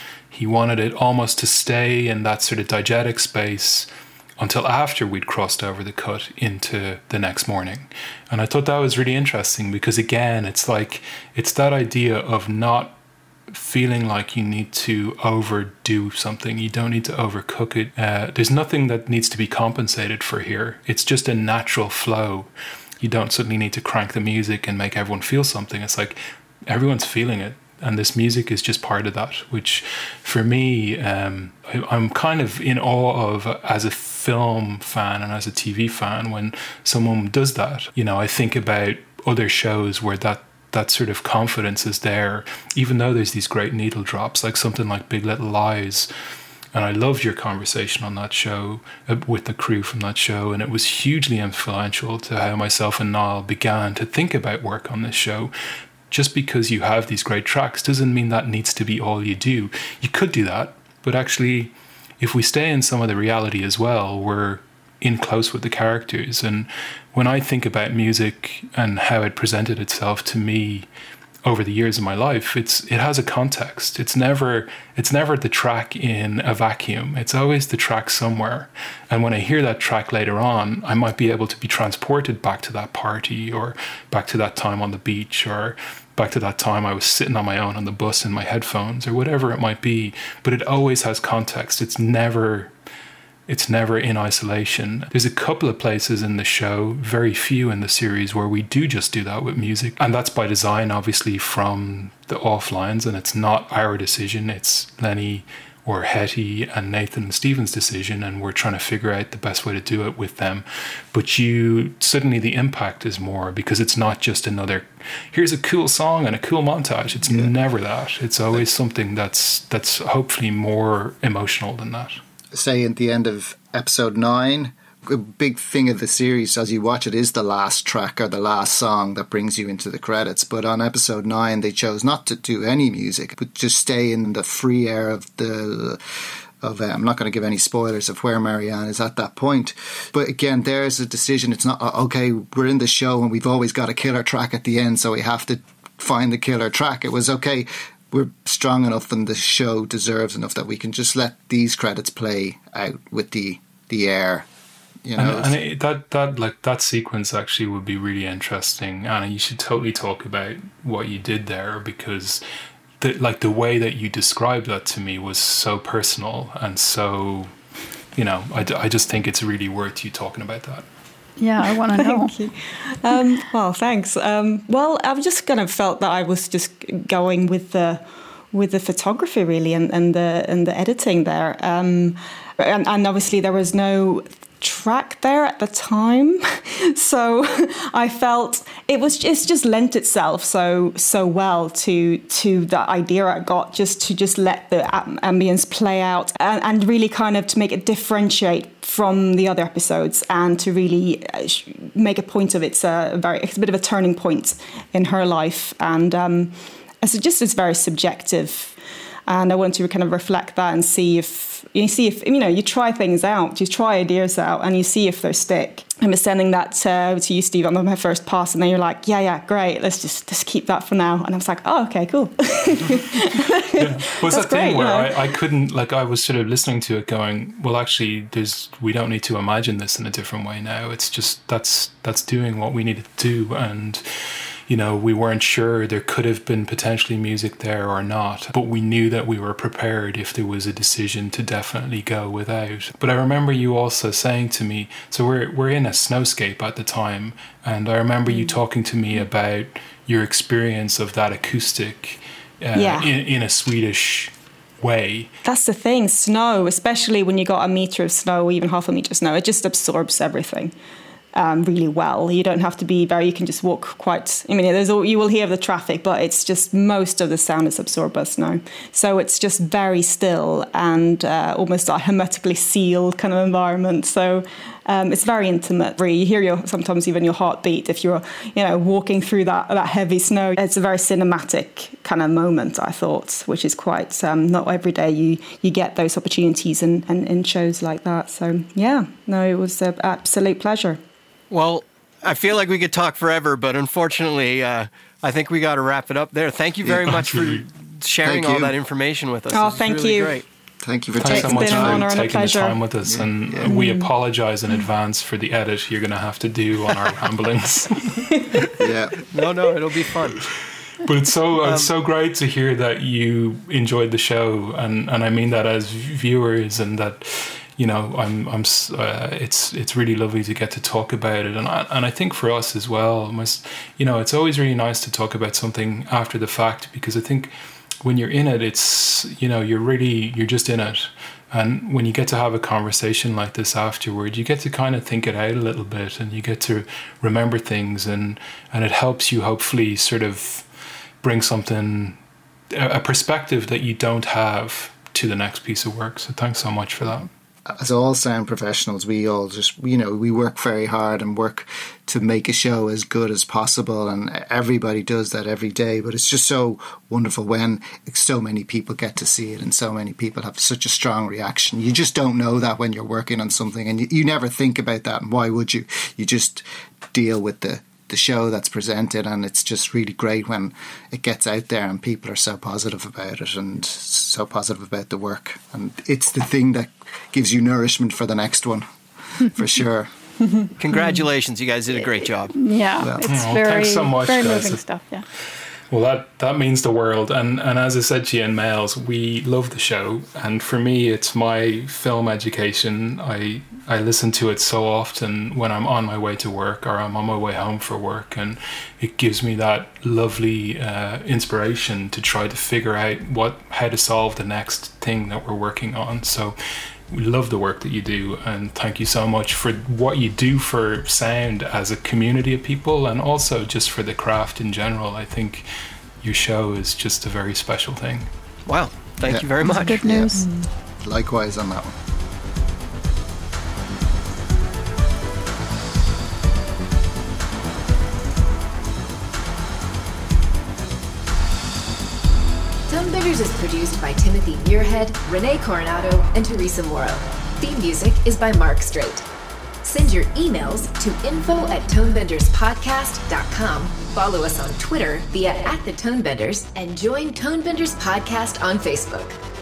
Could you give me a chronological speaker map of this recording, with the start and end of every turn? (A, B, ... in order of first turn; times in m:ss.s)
0:00.3-0:03.9 A
0:04.4-0:13.0 A
0:13.5-0:46.1 A
0:46.7-0:55.5 A
0:56.1-1:10.9 A
1:11.4-1:32.7 A
1:33.5-2:02.2 A
1:57.2-1:57.5 B
2:02.5-2:16.0 B
2:16.6-2:34.5 B
2:35.0-2:35.6 B
2:35.2-2:42.4 A
2:43.0-2:47.5 A
2:48.1-2:50.8 A
2:51.4-2:52.4 C
2:51.9-3:28.8 D
3:29.3-3:45.3 D
3:43.7-3:54.0 A
3:54.7-4:15.3 A
4:12.7-4:13.1 D
4:15.4-4:20.7 D
4:21.3-4:51.0 D
4:51.5-5:00.4 E
4:56.8-4:57.2 B
4:58.2-4:58.7 B
4:59.5-5:00.4 D
5:00.8-5:02.1 B
5:01.2-5:08.9 A
5:01.2-5:02.8 D
5:03.0-5:03.7 B
5:03.6-5:04.1 D
5:08.8-5:09.2 B
5:09.3-5:10.5 E
5:11.0-5:27.5 A
5:11.6-5:11.9 E
5:28.0-5:40.7 A
5:41.2-5:42.2 A
5:42.7-5:47.3 A
5:47.7-6:18.8 B
6:19.4-6:20.1 B
6:20.8-6:22.6 E
6:22.6-6:25.3 C
6:23.2-6:24.8 A
6:25.9-6:46.6 A
6:47.1-6:55.6 A
6:56.2-6:58.3 A
6:58.7-7:00.1 E
6:59.2-7:00.3 B
7:00.1-7:00.5 D
7:00.1-7:00.5 C
7:01.0-7:02.0 B
7:12.9-7:19.3 F
7:19.8-7:29.4 F